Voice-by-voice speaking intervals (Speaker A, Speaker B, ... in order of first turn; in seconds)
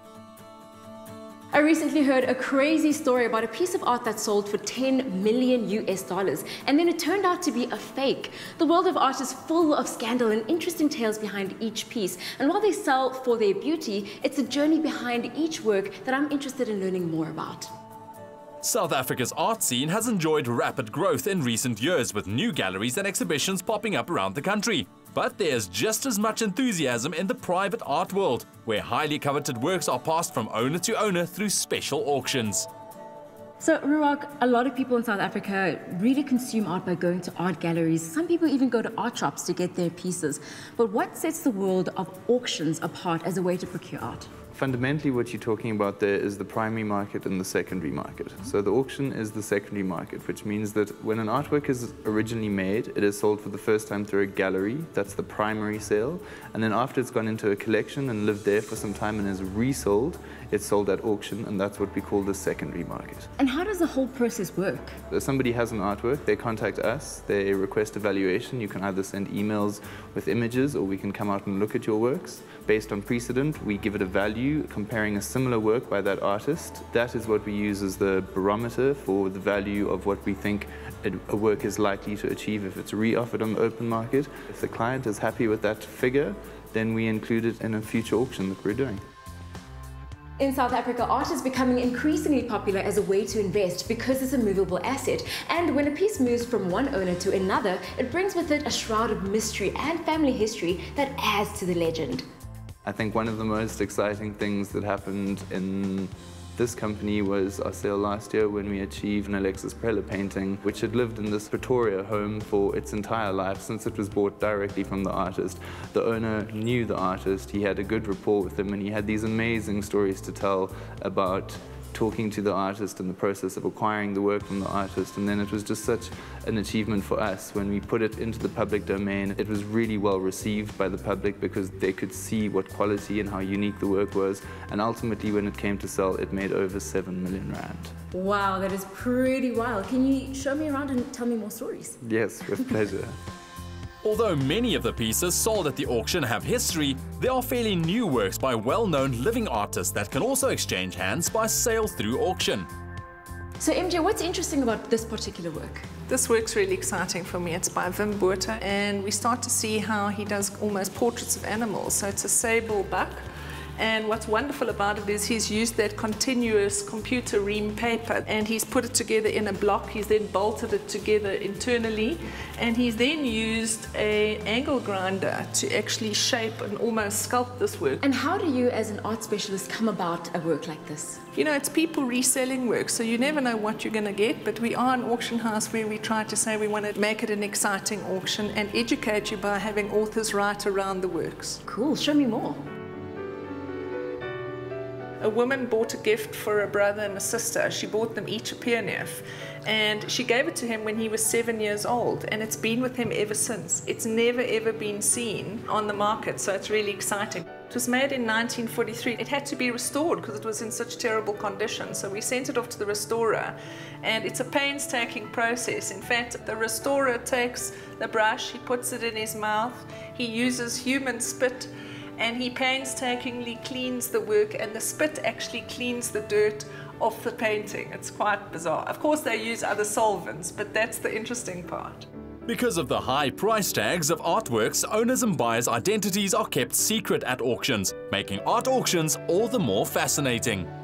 Speaker A: 1.5-17.7, 33.6-44.3, 63.4-65.0, 90.4-102.2, 138.1-142.0, 153.6-155.8, 178.0-181.2, 191.7-192.6
Speaker B: 18.6-32.7, 144.0-152.7, 232.5-240.7
Speaker C: 44.5-63.3, 65.1-89.0, 102.8-137.9, 142.0-143.2
Speaker D: 156.1-163.2, 163.8-178.0, 181.3-191.6, 195.2-232.1